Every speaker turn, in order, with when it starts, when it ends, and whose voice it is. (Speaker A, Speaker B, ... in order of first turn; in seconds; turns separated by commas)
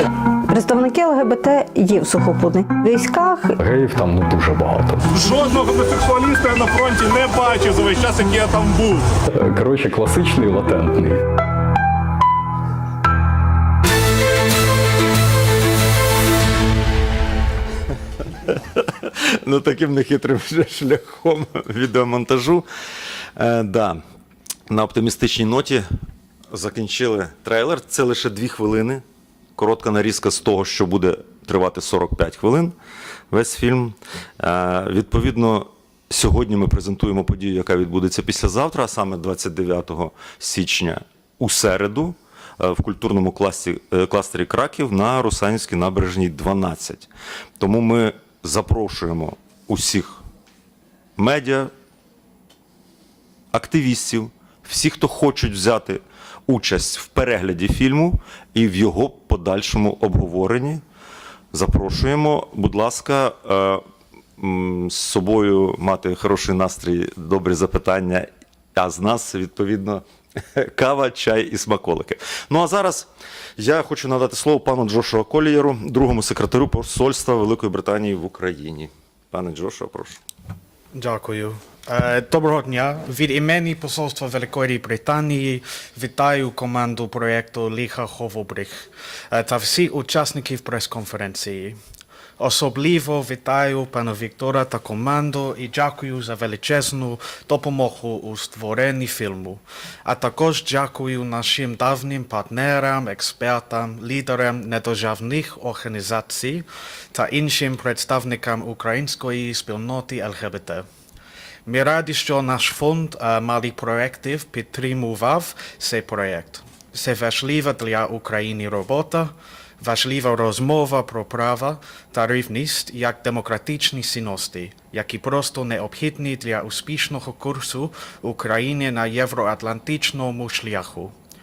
Speaker A: 0.5-3.5, Speaker B: 3.6-5.0, Speaker C: 5.1-9.0, Speaker B: 9.3-11.2, Speaker D: 18.5-22.7, Speaker D: 23.4-24.0, Speaker D: 24.7-25.9, Speaker D: 26.5-29.0, Speaker D: 29.6-32.8, Speaker D: 33.3-50.2, Speaker D: 51.2-51.7, Speaker D: 53.5-60.8, Speaker D: 61.5-63.8, Speaker D: 64.4-80.2, Speaker E: 80.9-91.8, Speaker E: 92.4-110.9, Speaker E: 111.7-131.1